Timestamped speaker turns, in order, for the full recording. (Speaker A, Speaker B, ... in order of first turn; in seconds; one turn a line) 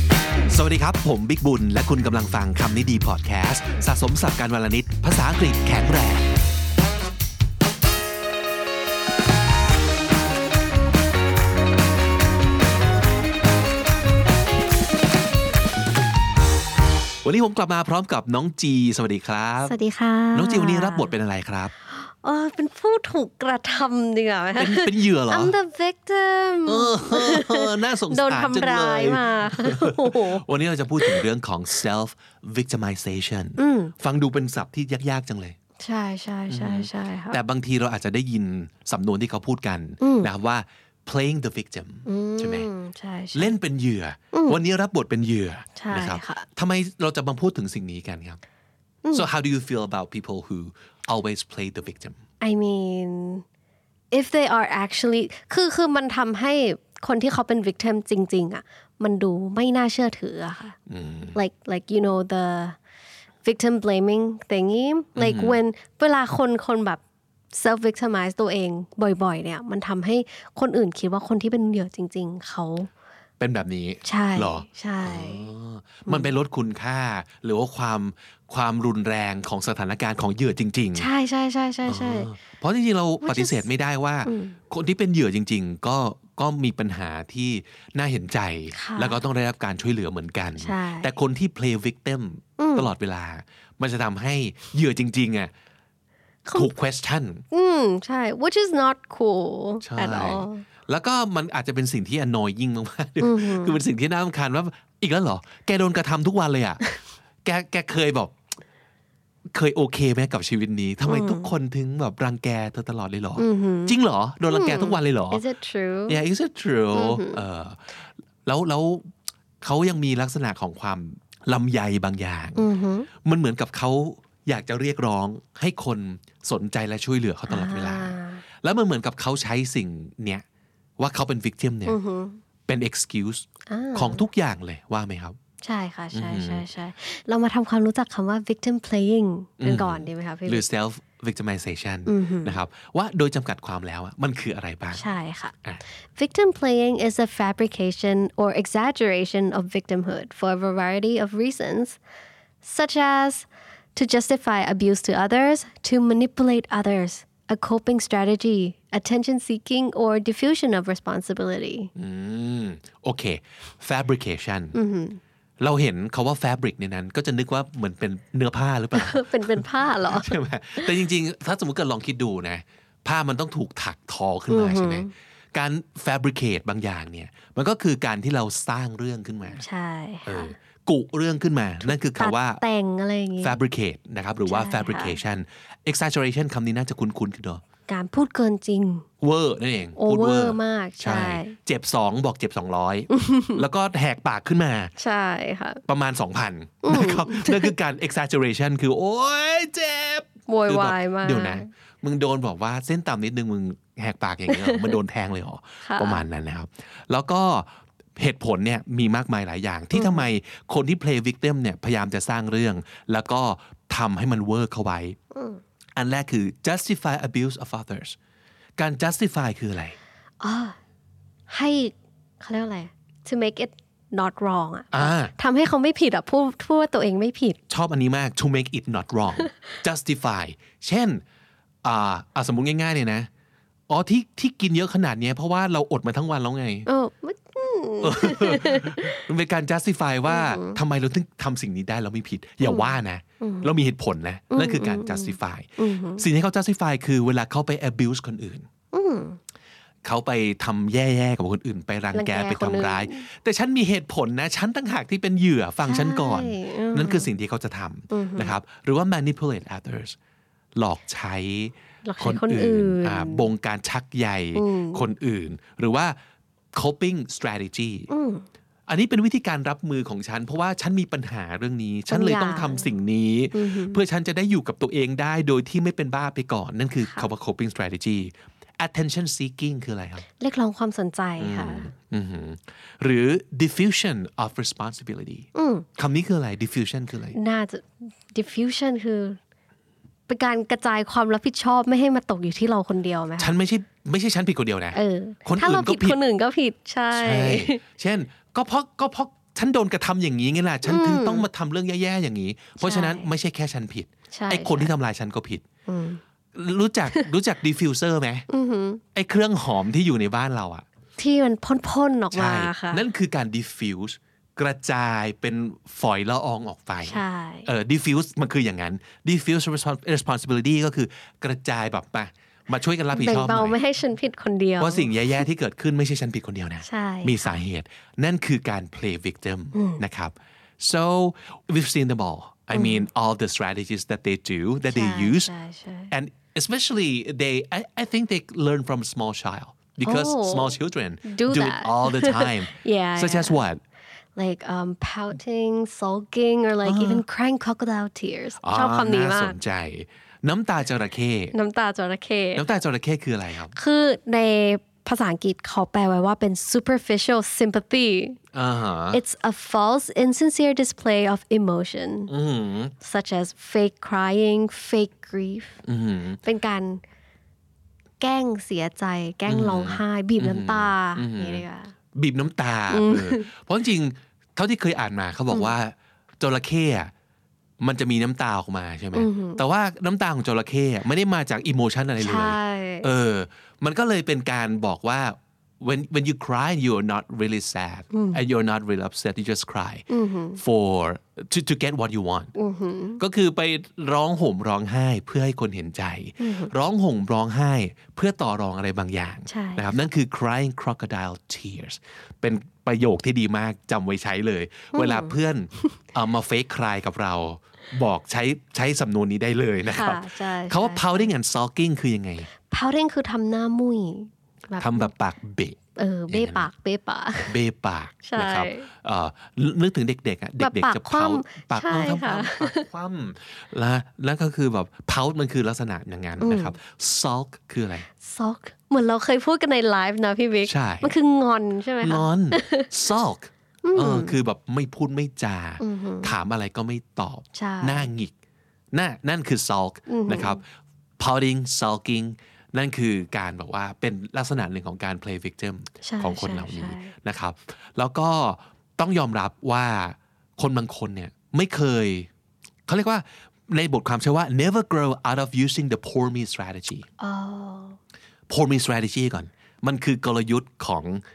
Speaker A: 0.5-6.3
Speaker A: 17.2-19.8
Speaker B: 19.6-21.1
Speaker A: 20.3-21.7
Speaker B: 21.8-30.4
Speaker A: 24.6-25.6
Speaker A: 26.7-35.6
Speaker B: 31.0-31.2
Speaker B: 33.6-33.9
Speaker B: 35.8-37.4
Speaker A: 36.5-42.7
Speaker B: 40.0-40.3
Speaker B: 42.1-43.5
Speaker A: 43.3-48.4
Speaker B: 44.3-44.6
Speaker B: 45.8-46.5
Speaker A: 49.1-52.2
Speaker B: 52.4-53.4
Speaker B: 54.1-60.8
Speaker A: 60.9-61.4
Speaker B: 61.4-62.8
Speaker B: 63.4-67.0
Speaker A: 65.2-65.6
Speaker B: 67.5-72.9
Speaker A: 73.4-81.1
Speaker B: 74.0-75.5
Speaker B: 76.1-76.3
Speaker B: 81.0-82.3
Speaker A: 81.9-95.5
Speaker B: 83.2-83.7
Speaker B: 84.2-84.6
Speaker B: 88.7-89.2
Speaker B: 90.6-91.1
Speaker B: 92.6-92.9
Speaker B: 96.5-96.7
Speaker A: 96.5-97.4
Speaker B: 97.5-100.7
Speaker A: 99.8-106.8
Speaker B: 103.2-103.8
Speaker A: 107.5-108.4
Speaker A: 109.5-115.4
Speaker B: 111.0-111.5
Speaker B: 113.4-116.2
Speaker A: 116.1-119.1
Speaker B: 116.9-117.4
Speaker A: 119.6-122.7
Speaker B: 122.6-123.1
Speaker A: 123.2-130.4
Speaker B: 127.5-128.4
Speaker A: 131.0-132.0
Speaker B: 131.9-132.4
Speaker A: 132.7-135.4
Speaker B: 133.7-134.3
Speaker B: 135.6-140.7
Speaker A: 136.1-136.7
Speaker A: 139.6-145.1
Speaker B: 142.1-142.6
Speaker B: 144.9-145.6
Speaker B: 146.2-152.0
Speaker B: 152.6-161.9
Speaker A: 162.0-164.8
Speaker B: 164.7-165.2
Speaker A: 165.6-179.6
Speaker B: 168.9-171.0
Speaker B: 174.5-175.1
Speaker B: 179.5-180.5
Speaker A: 180.3-182.6
Speaker B: 181.8-183.6
Speaker A: 183.4-187.6
Speaker B: 184.5-185.2
Speaker B: 187.9-189.1
Speaker A: 189.2-194.9
Speaker B: 190.0-191.6
Speaker B: 193.1-193.6
Speaker B: 195.0-195.8
Speaker A: 195.9-215.2
Speaker B: 196.8-197.7
Speaker B: 200.5-201.7
Speaker B: 204.5-205.0
Speaker B: 205.8-206.2
Speaker B: 209.9-210.3
Speaker B: 215.3-215.6
Speaker A: 216.0-218.2
Speaker A: 218.8-220.0
Speaker B: 220.4-220.8
Speaker B: 221.5-227.6
Speaker A: 224.9-225.3
Speaker A: 227.7-231.2
Speaker A: 231.8-233.3
Speaker A: 233.9-236.9
Speaker B: 236.9-239.2
Speaker A: 238.0-248.7
Speaker B: 240.3-240.8
Speaker B: 242.6-243.7
Speaker B: 244.5-246.3
Speaker B: 248.9-249.4
Speaker A: 250.0-260.2
Speaker B: 252.1-253.3
Speaker B: 255.8-257.3
Speaker B: 258.1-258.6
Speaker A: 260.8-266.2
Speaker B: 262.0-263.5
Speaker B: 264.6-265.1
Speaker A: 266.7-268.1
Speaker B: 268.1-268.5
Speaker A: 268.9-280.3
Speaker B: 272.1-272.9
Speaker B: 273.5-274.0
Speaker B: 277.0-277.3
Speaker B: 280.4-281.9
Speaker A: 281.4-287.4
Speaker B: 285.6-285.9
Speaker B: 287.3-289.4
Speaker B: 290.3-293.6
Speaker A: 293.4-296.2
Speaker B: 294.9-297.8
Speaker A: 297.1-305.6
Speaker B: 300.9-301.5
Speaker B: 302.8-303.3
Speaker B: 304.3-305.0
Speaker B: 305.9-306.2
Speaker A: 306.5-308.5
Speaker B: 308.5-309.0
Speaker A: 309.1-310.9
Speaker B: 311.2-313.1
Speaker A: 312.3-323.8
Speaker B: 317.0-317.7
Speaker B: 323.1-325.4
Speaker A: 324.8-335.5
Speaker B: 326.8-327.6
Speaker B: 329.7-330.0
Speaker B: 332.7-333.1
Speaker B: 334.9-336.1
Speaker A: 336.1-343.8
Speaker B: 340.0-343.6
Speaker B: 344.4-349.6
Speaker A: 346.9-347.2
Speaker A: 348.6-351.5
Speaker B: 351.5-352.7
Speaker A: 352.6-353.7
Speaker B: 353.7-358.4
Speaker A: 358.5-359.2
Speaker B: 359.1-362.3
Speaker A: 362.3-362.9
Speaker B: 363.0-365.8
Speaker A: 365.9-366.4
Speaker B: 366.4-367.0
Speaker B: 368.2-371.9
Speaker A: 369.5-377.1
Speaker B: 372.9-373.5
Speaker A: 377.8-390.1
Speaker B: 379.1-379.6
Speaker B: 382.2-383.1
Speaker B: 388.1-388.4
Speaker B: 390.1-390.6
Speaker A: 390.6-392.5
Speaker B: 392.6-393.2
Speaker A: 393.2-412.5
Speaker B: 396.4-396.7
Speaker B: 399.5-400.1
Speaker B: 404.9-405.9
Speaker B: 409.9-411.4
Speaker B: 412.7-415.1
Speaker A: 414.8-415.8
Speaker B: 415.9-417.6
Speaker A: 416.3-416.7
Speaker A: 417.5-428.1
Speaker B: 418.2-418.9
Speaker B: 420.6-422.9
Speaker B: 426.4-426.8
Speaker B: 428.2-432.9
Speaker A: 430.6-431.1
Speaker A: 432.0-438.3
Speaker B: 433.8-434.4
Speaker B: 435.8-436.4
Speaker B: 437.5-438.1
Speaker A: 438.9-440.6
Speaker B: 440.1-440.6
Speaker A: 441.2-452.3
Speaker B: 446.0-447.1
Speaker A: 452.9-457.1
Speaker B: 457.2-458.0
Speaker A: 458.5-461.2